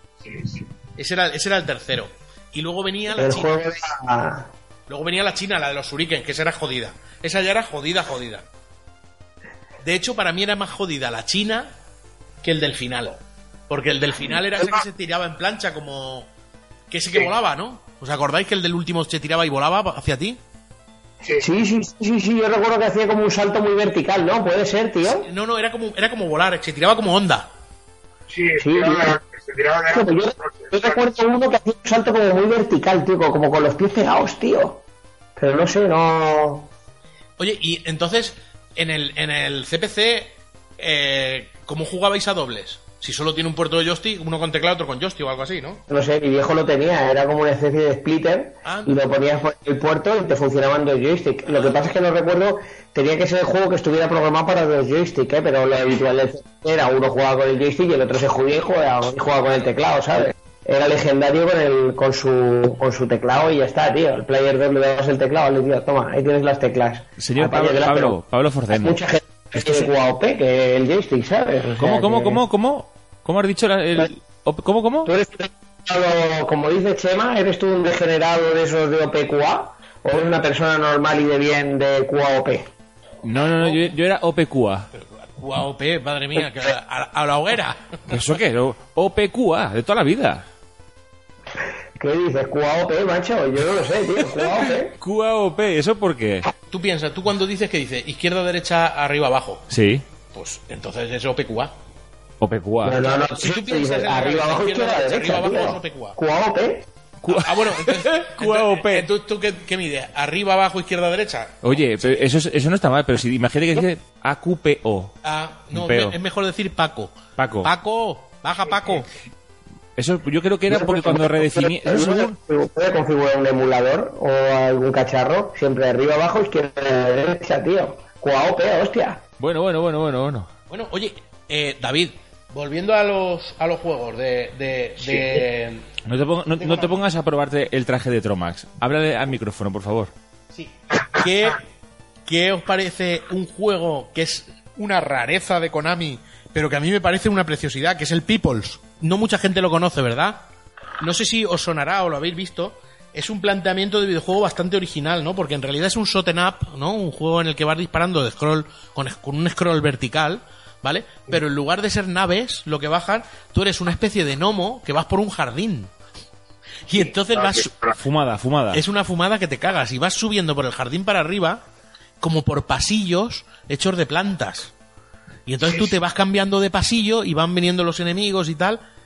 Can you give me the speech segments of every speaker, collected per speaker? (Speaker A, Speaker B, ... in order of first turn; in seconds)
Speaker A: 0.2-0.7, 21.2-21.5, 28.3-31.1, 141.0-141.3, 167.0-168.0, 175.7-175.9
Speaker B: 1.0-3.8, 4.9-8.4, 9.8-11.7, 12.4-16.3, 16.9-20.4, 25.1-27.5, 37.4-45.8, 48.6-49.0, 51.5-51.8, 84.9-88.2, 96.7-99.7, 100.3-101.7, 103.0-106.2, 107.3-112.2, 115.2-119.1, 130.7-135.8, 140.5-141.6, 142.3-150.4, 151.0-165.9, 166.9-167.8, 168.7-171.6, 172.2-174.7, 175.5-178.8
Speaker C: 3.1-4.5, 14.3-14.8, 21.4-25.3, 28.6-29.2, 29.9-34.8, 35.4-36.7, 45.9-68.2, 68.7-72.4, 75.1-82.7, 92.0-95.0, 102.8-106.9, 120.7-129.2, 135.0-135.5
Speaker D: 67.2-69.0, 71.8-75.1, 83.2-84.9, 88.1-90.5, 95.0-96.5, 99.7-100.0, 102.4-103.0, 107.2-109.0, 111.6-115.1, 115.7-116.2, 117.4-117.7, 120.0-122.4, 129.4-130.5, 136.1-140.1, 168.0-168.8